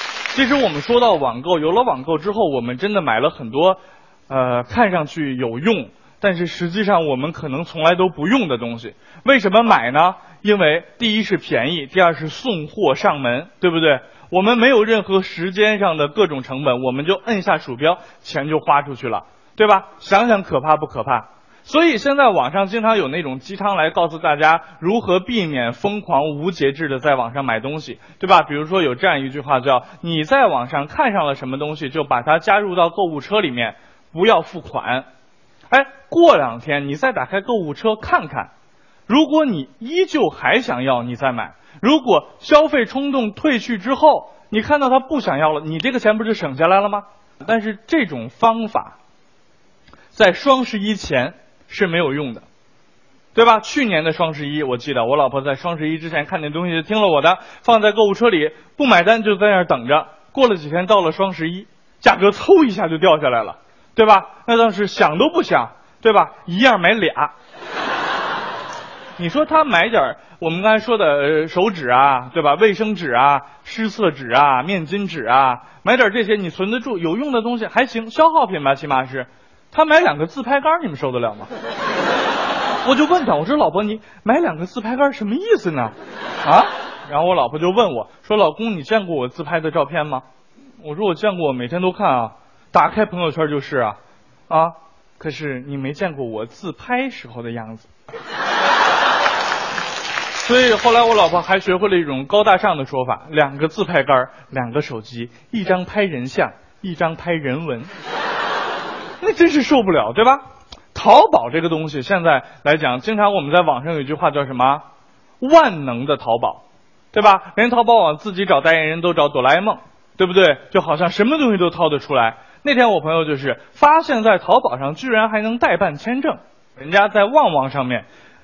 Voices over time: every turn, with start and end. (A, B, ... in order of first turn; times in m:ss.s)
0:00.3-0:35.1 A
0:35.7-0:38.5 A
0:39.1-0:49.0 A
0:50.1-0:52.4 A
0:53.4-1:07.3 A
1:09.2-1:21.5 A
1:22.8-1:30.2 A
1:30.8-1:34.0 A
1:34.5-1:37.9 A
1:40.4-1:47.9 A
1:49.2-1:54.8 A
1:55.4-2:08.1 A